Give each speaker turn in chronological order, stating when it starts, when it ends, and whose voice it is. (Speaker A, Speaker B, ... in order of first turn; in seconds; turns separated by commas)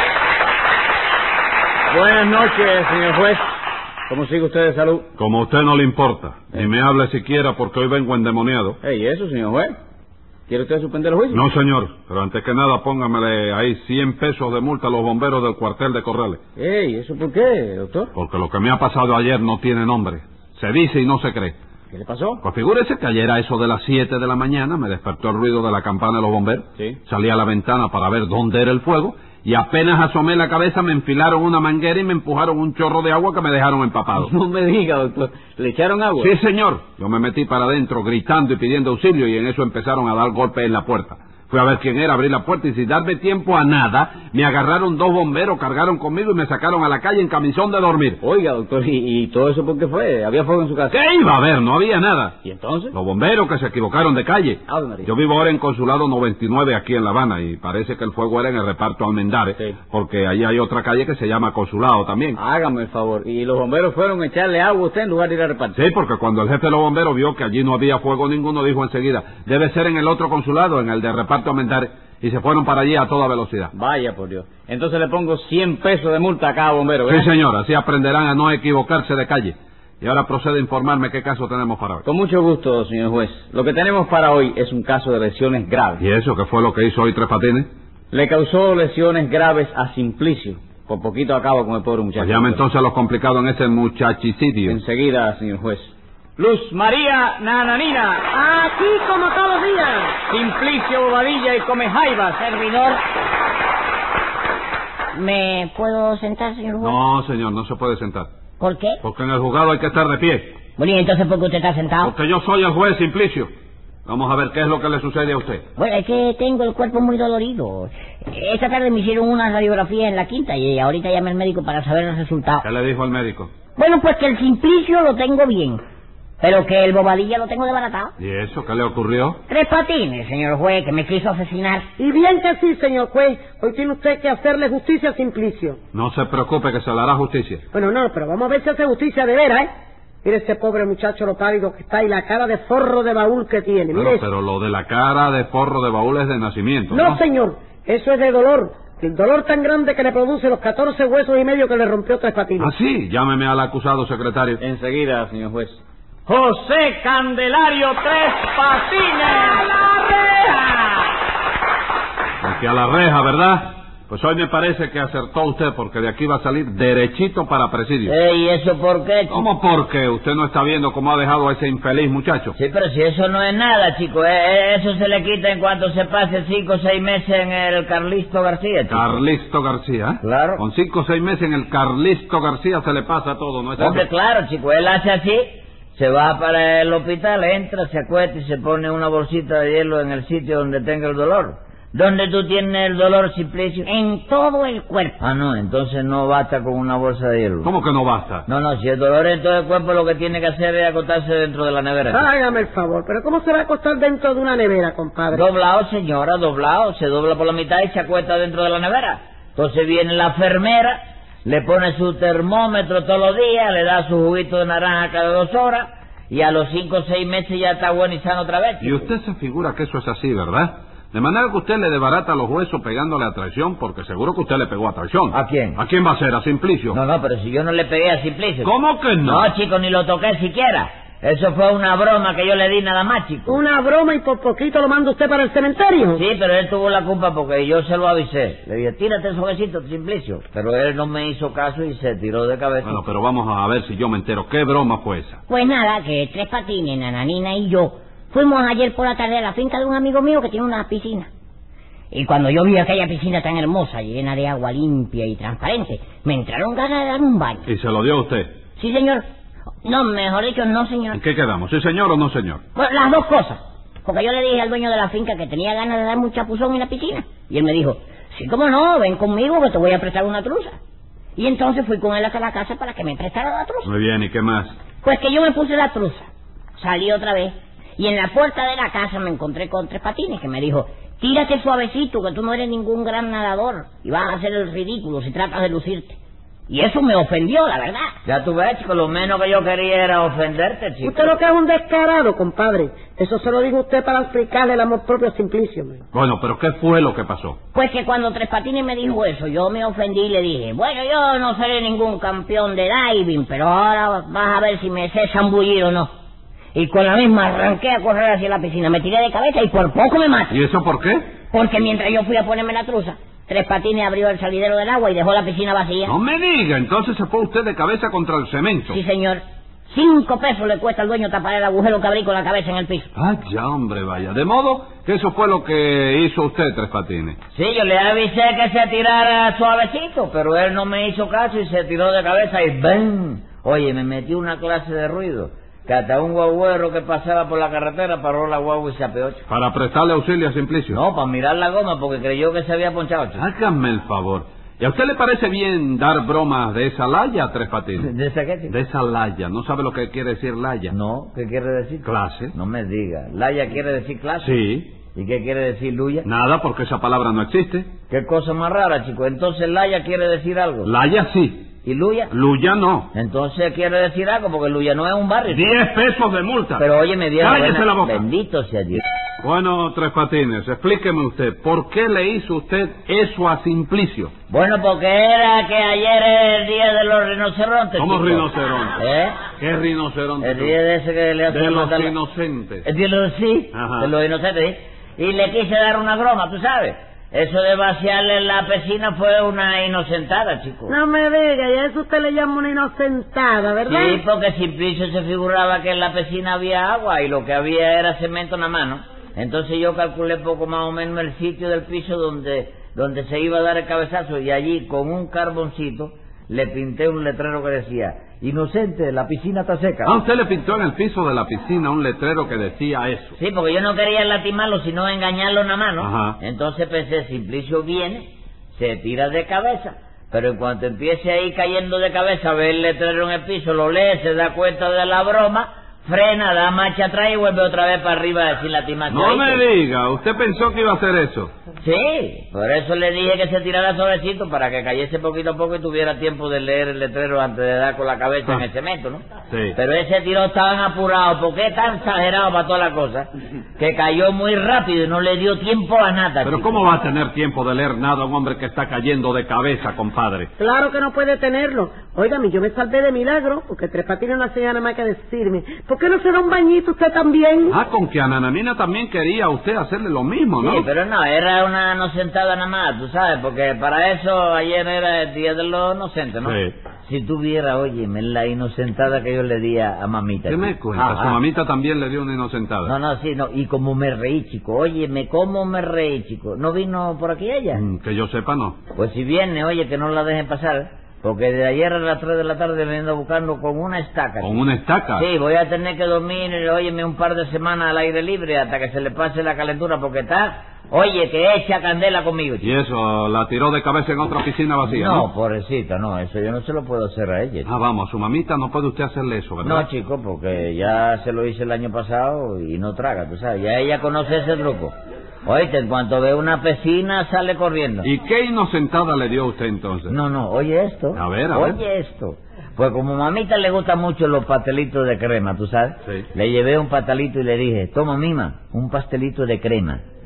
Speaker A: 1.9-3.4, Speaker A: 4.1-5.1, Speaker B: 5.2-8.8, Speaker A: 8.8-9.8, Speaker A: 10.5-11.4, Speaker B: 11.3-16.4, Speaker A: 16.6-18.1, Speaker B: 18.1-21.5, Speaker A: 21.9-22.4, Speaker B: 22.4-34.3, Speaker A: 34.1-36.3, Speaker B: 36.2-48.2, Speaker A: 48.2-51.0, Speaker B: 50.9-52.4, Speaker A: 52.4-52.9, Speaker B: 52.9-62.4, Speaker A: 54.7-55.1, Speaker A: 62.4-65.7, Speaker B: 65.7-73.7, Speaker A: 73.7-77.3, Speaker B: 77.1-82.0, Speaker A: 82.0-86.0, Speaker B: 86.0-87.7, Speaker A: 88.1-92.6, Speaker B: 92.2-94.8, Speaker A: 94.7-98.3, Speaker C: 98.3-100.2, Speaker A: 100.2-103.0, Speaker D: 105.1-107.0, Speaker B: 106.8-108.3, Speaker D: 108.6-109.0, Speaker B: 109.0-110.6, Speaker D: 110.8-112.1, Speaker B: 112.0-113.5, Speaker B: 114.0-115.6, Speaker D: 115.8-122.6, Speaker B: 122.6-123.5, Speaker D: 123.8-125.8, Speaker D: 126.4-128.1, Speaker B: 128.2-129.4, Speaker D: 129.5-131.9, Speaker C: 132.0-135.8, Speaker B: 135.9-137.6, Speaker C: 137.7-139.7, Speaker C: 140.2-144.2, Speaker B: 143.9-147.2, Speaker C: 146.9-152.7, Speaker B: 152.6-154.6, Speaker A: 154.6-161.1, Speaker B: 162.4-168.1, Speaker E: 168.1-169.5, Speaker B: 169.3-172.5, Speaker E: 172.5-179.2, Speaker B: 178.9-184.1, Speaker E: 180.2-180.6, Speaker E: 183.8-193.9, Speaker D: 193.8-195.2, Speaker E: 195.2-197.7, Speaker B: 197.6-198.4, Speaker E: 198.5-202.2, Speaker C: 202.1-205.4, Speaker E: 205.3-219.1, Speaker B: 218.8-227.0, Speaker E: 225.3-225.8, Speaker E: 226.9-228.7, Speaker B: 228.6-229.5, Speaker E: 229.2-233.6, Speaker C: 233.5-236.2, Speaker E: 236.1-243.1, Speaker B: 242.8-245.4, Speaker D: 245.5-251.3, Speaker D: 252.1-257.7, Speaker B: 257.6-258.5, Speaker D: 258.8-259.2, Speaker D: 259.8-261.2, Speaker B: 261.1-262.6, Speaker D: 262.7-270.8, Speaker D: 271.4-273.9, Speaker B: 273.8-274.7, Speaker D: 275.0-286.2, Speaker D: 286.7-288.1, Speaker E: 288.2-291.3, Speaker C: 291.0-296.0, Speaker B: 296.1-297.6, Speaker D: 297.7-306.1, Speaker D: 306.7-310.6, Speaker B: 310.5-311.2, Speaker D: 311.5-316.1, Speaker B: 316.0-319.0, Speaker D: 318.9-323.1, Speaker B: 323.1-327.4, Speaker E: 327.5-339.4, Speaker B: 339.5-341.0, Speaker E: 340.9-343.4, Speaker B: 343.4-348.1, Speaker E: 348.0-348.7, Speaker B: 348.7-350.9, Speaker E: 350.9-354.5, Speaker B: 352.0-352.5, Speaker B: 354.4-354.9, Speaker E: 355.1-356.2, Speaker B: 356.2-357.9, Speaker E: 358.1-360.9, Speaker B: 360.8-361.7, Speaker E: 361.8-362.3, Speaker B: 362.3-363.1, Speaker E: 363.1-365.8, Speaker B: 365.5-366.9, Speaker E: 366.8-369.0, Speaker B: 367.4-368.2, Speaker B: 369.4-374.3, Speaker E: 374.5-378.4, Speaker B: 377.9-379.0, Speaker E: 379.0-379.4, Speaker B: 379.6-380.8, Speaker E: 380.4-382.1, Speaker B: 381.5-382.9, Speaker E: 382.8-390.9, Speaker B: 383.7-384.1, Speaker C: 390.9-394.2, Speaker E: 393.9-410.1, Speaker B: 410.0-413.4, Speaker E: 413.4-429.6, Speaker B: 416.0-416.4, Speaker B: 429.1-431.5, Speaker E: 431.8-439.2, Speaker B: 439.5-439.8, Speaker E: 439.8-446.9, Speaker B: 446.4-450.5, Speaker C: 450.6-457.8, Speaker B: 457.7-460.9, Speaker E: 460.6-471.4, Speaker B: 466.4-466.7, Speaker B: 470.4-472.9, Speaker E: 472.8-477.8, Speaker B: 477.7-478.8, Speaker E: 478.9-484.6, Speaker B: 484.4-485.3, Speaker E: 485.1-492.7, Speaker B: 492.6-495.3, Speaker E: 494.8-497.7, Speaker B: 497.6-499.9, Speaker E: 499.6-504.9, Speaker E: 505.4-508.1, Speaker B: 508.0-510.1, Speaker E: 510.1-520.0, Speaker B: 511.1-511.8